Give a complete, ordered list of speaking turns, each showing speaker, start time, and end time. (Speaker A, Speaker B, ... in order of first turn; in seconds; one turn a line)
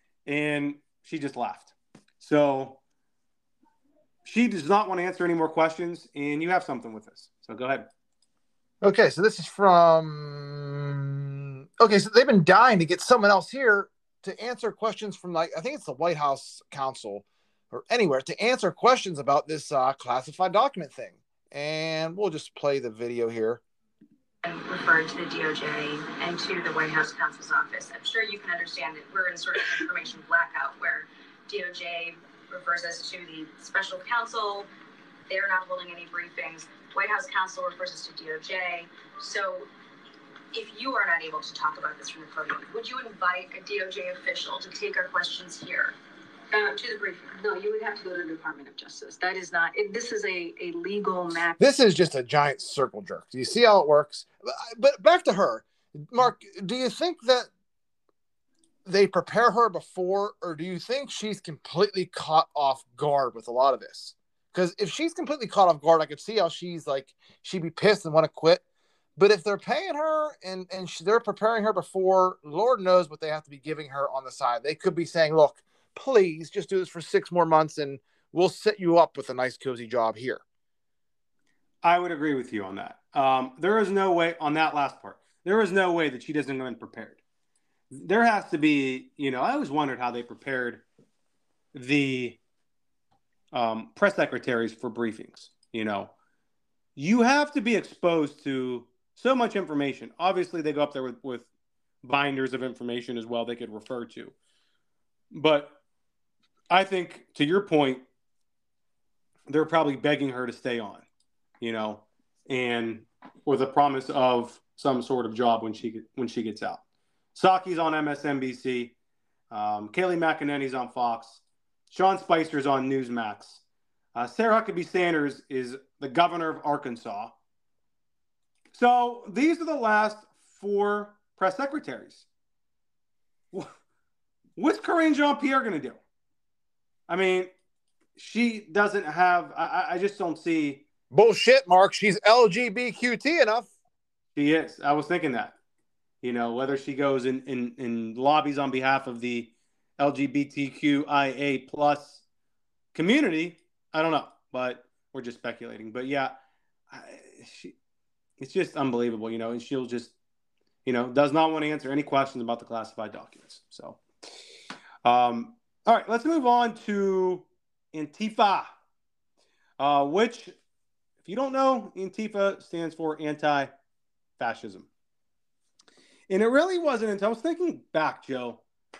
Speaker A: 0.2-2.8
Speaker A: 4.2-7.9
Speaker B: 8.8-11.2
Speaker B: 11.8-23.6
Speaker C: 24.4-34.7
Speaker C: 35.3-39.7
Speaker C: 40.5-45.9
Speaker C: 46.5-51.6
Speaker B: 51.6-57.5
Speaker B: 58.9-68.6
Speaker B: 69.2-80.4
Speaker A: 81.8-87.2
Speaker A: 87.9-90.8
Speaker A: 91.7-92.4
Speaker A: 93.5-96.1
Speaker A: 97.0-101.5
Speaker A: 102.0-104.3
Speaker A: 105.3-105.8
Speaker A: 106.7-108.0
Speaker A: 109.5-111.0
Speaker A: 111.6-116.8
Speaker A: 117.3-118.9
Speaker A: 119.5-123.6
Speaker A: 124.1-127.3
Speaker A: 128.7-132.2
Speaker A: 134.6-136.0
Speaker A: 137.1-137.5
Speaker A: 138.2-140.8
Speaker B: 141.1-143.7
Speaker A: 144.3-145.6
Speaker A: 146.2-152.2
Speaker A: 152.9-156.3
Speaker A: 156.9-157.7
Speaker A: 158.4-160.1
Speaker A: 160.8-164.0
Speaker A: 165.0-168.7
Speaker A: 169.8-170.5
Speaker A: 171.2-173.7
Speaker A: 174.4-174.9
Speaker A: 176.3-178.6